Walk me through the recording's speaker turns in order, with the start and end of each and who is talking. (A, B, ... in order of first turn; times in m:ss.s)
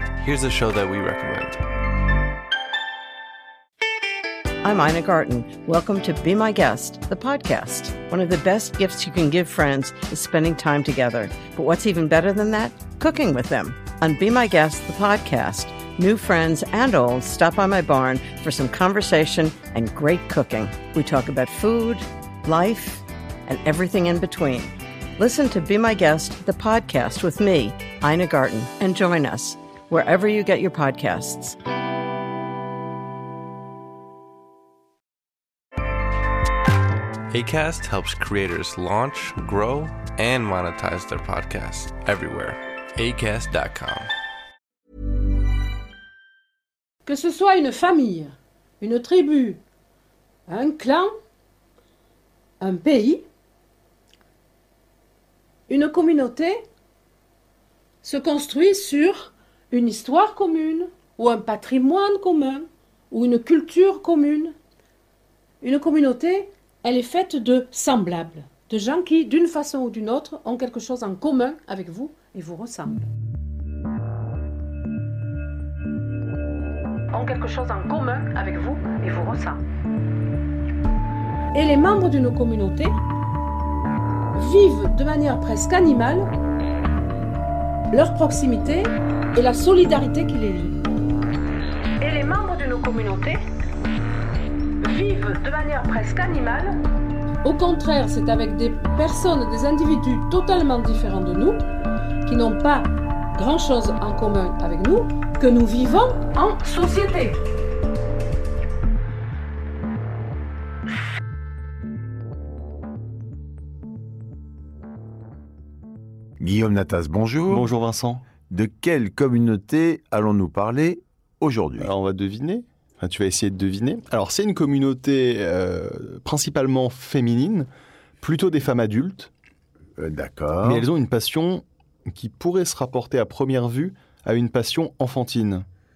0:00.2-0:01.6 A
0:04.6-0:31.6 B
0:37.3-0:44.1 A
0:47.1-0:49.6 C
0:50.5-0:51.1 C
0:52.6-0:53.2 C
0:55.7-0:56.6 C
0:58.0-1:04.6 C
1:05.6-1:13.1 C
1:17.1-1:19.6 C
1:21.5-1:23.0 C
1:24.3-1:26.3 C
1:27.9-1:30.8 C
1:32.0-1:33.4 C
1:34.8-1:36.8 C
1:37.4-1:41.6 C
1:42.3-1:47.4 C
1:56.4-1:57.7 D
1:57.5-1:58.2 E
1:58.5-2:01.9 D
2:01.8-2:07.7 E
2:08.2-2:09.3 E
2:10.0-2:10.9 D
2:10.6-2:15.6 E